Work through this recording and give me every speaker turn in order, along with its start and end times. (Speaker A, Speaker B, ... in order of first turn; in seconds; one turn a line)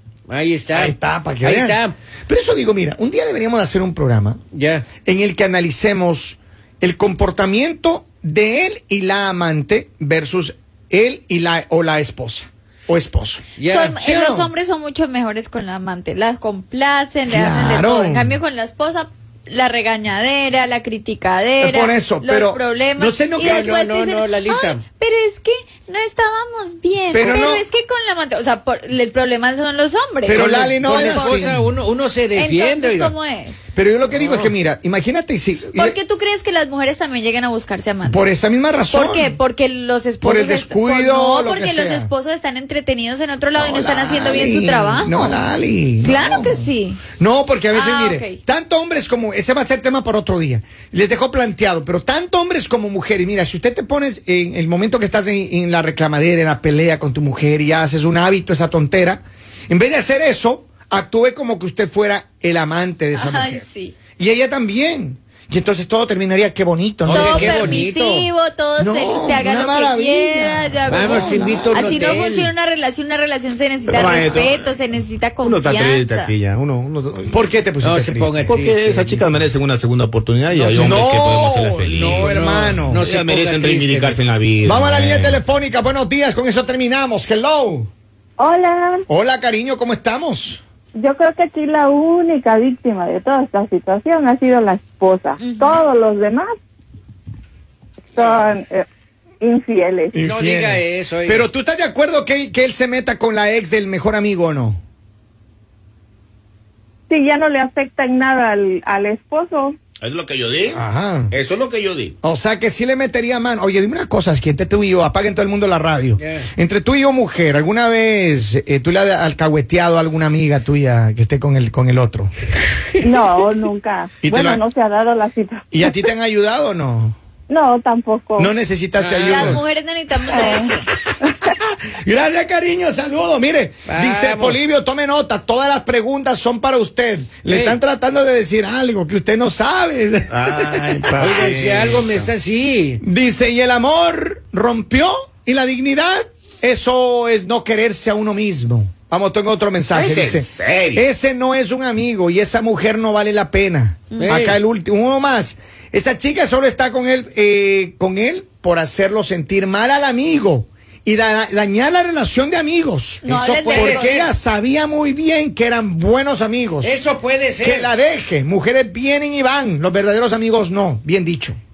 Speaker A: 0.3-1.9
Speaker B: 0.7-4.4
Speaker A: 4.5-4.8
Speaker B: 5.0-14.5
Speaker A: 13.6-14.0
Speaker C: 13.6-30.5
Speaker B: 17.3-18.4
Speaker B: 21.6-23.8
Speaker A: 23.4-24.8
Speaker B: 27.1-27.6
Speaker B: 30.2-31.7
Speaker A: 30.3-33.1
Speaker C: 32.4-33.7
Speaker B: 33.8-36.0
Speaker A: 34.1-34.5
Speaker C: 35.7-38.3
Speaker B: 38.0-39.4
Speaker C: 38.9-45.4
Speaker B: 40.2-42.1
Speaker B: 43.5-63.6
Speaker C: 46.0-47.1
Speaker C: 47.7-48.4
Speaker C: 63.1-64.0
Speaker B: 64.2-67.8
Speaker A: 67.1-68.3
Speaker C: 67.1-76.3
Speaker B: 68.8-71.9
Speaker A: 70.9-72.5
Speaker D: 73.9-74.8
Speaker D: 75.4-77.5
Speaker B: 77.3-78.5
Speaker A: 77.8-79.2
Speaker D: 78.5-85.4
Speaker B: 80.5-83.1
Speaker A: 82.1-84.2
Speaker B: 84.6-87.9
Speaker E: 88.4-89.0
Speaker B: 89.1-90.6
Speaker E: 91.0-96.6
Speaker C: 95.4-95.8
Speaker E: 98.1-98.9
Speaker A: 98.2-98.5
Speaker E: 99.4-100.1
Speaker B: 100.1-104.8
Speaker A: 100.2-101.5
Speaker E: 107.1-109.8
Speaker D: 110.0-112.2
Speaker B: 110.7-111.3
Speaker B: 112.2-122.3
Speaker A: 116.2-116.5
Speaker E: 123.0-125.7
Speaker B: 124.2-124.6
Speaker B: 125.7-127.2
Speaker E: 127.5-128.5
Speaker B: 128.4-129.7
Speaker A: 129.0-129.6
Speaker C: 129.3-130.8
Speaker B: 130.3-141.5
Speaker A: 133.9-134.6
Speaker A: 137.4-137.8
Speaker D: 140.3-142.3
Speaker A: 141.2-143.0
Speaker B: 143.0-167.0
Speaker D: 149.9-151.0
Speaker A: 154.2-154.6
Speaker C: 163.2-164.2
Speaker A: 163.6-164.3
Speaker A: 166.8-167.9
Speaker B: 167.6-171.6